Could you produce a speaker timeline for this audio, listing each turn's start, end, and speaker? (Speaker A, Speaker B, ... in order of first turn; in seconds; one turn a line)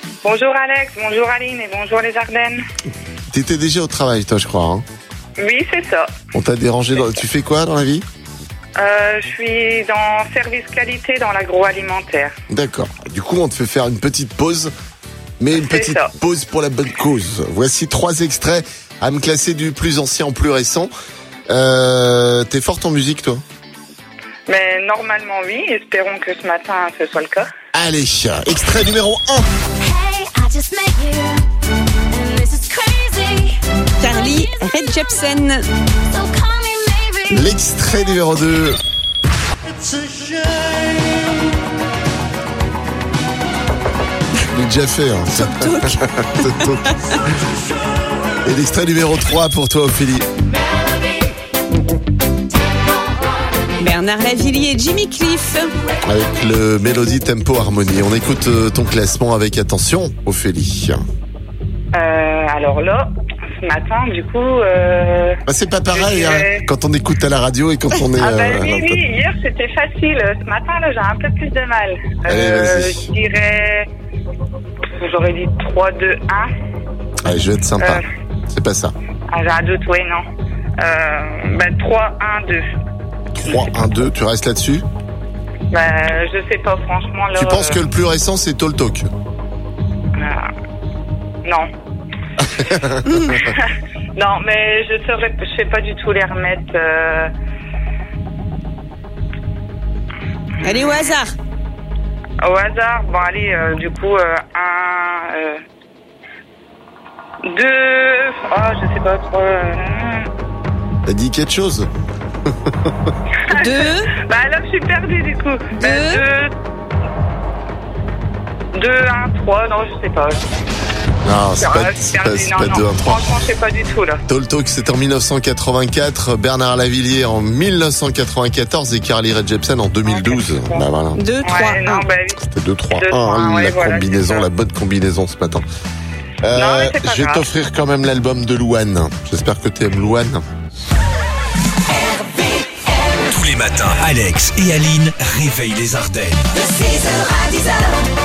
Speaker A: 0.2-2.6
Speaker B: 3.3-4.8
Speaker A: 5.4-6.1
Speaker B: 6.3-8.0
Speaker A: 8.8-12.3
Speaker B: 12.5-14.7
Speaker B: 15.4-20.9
Speaker A: 15.6-16.1
Speaker B: 21.5-23.4
Speaker A: 24.5-27.5
Speaker B: 27.7-29.5
Speaker C: 29.8-31.4
Speaker C: 32.1-33.6
Speaker D: 34.0-35.6
Speaker C: 36.1-37.5
Speaker B: 37.3-38.8
Speaker B: 44.5-47.0
Speaker D: 45.3-47.0
Speaker B: 48.4-50.3
Speaker D: 53.8-55.7
Speaker B: 56.0-61.0
Speaker A: 61.9-65.4
Speaker B: 65.5-69.0
Speaker A: 65.9-66.6
Speaker A: 68.2-73.9
Speaker B: 72.3-73.0
Speaker A: 75.0-76.5
Speaker B: 77.2-78.9
Speaker A: 79.3-80.2
Speaker A: 80.8-82.6
Speaker B: 83.3-84.8
Speaker A: 85.7-87.8
Speaker B: 87.3-89.1
Speaker A: 90.1-90.5
Speaker B: 92.5-93.1
Speaker A: 93.4-97.3
Speaker A: 100.6-101.1
Speaker D: 100.6-101.3
Speaker A: 102.4-105.6
Speaker A: 107.5-110.3
Speaker B: 111.0-111.9
Speaker A: 113.4-116.5
Speaker D: 113.5-114.1
Speaker D: 115.8-116.2
Speaker A: 118.7-120.4
Speaker B: 121.2-123.3
Speaker A: 121.6-124.2
Speaker B: 124.3-131.2
Speaker A: 130.1-130.8
Speaker D: 131.2-132.1
Speaker A: 131.4-132.4
Speaker B: 132.4-135.6
Speaker A: 132.9-134.5
Speaker B: 136.4-140.4
Speaker A: 136.5-137.5
Speaker E: 143.2-146.5
Speaker C: 147.1-147.3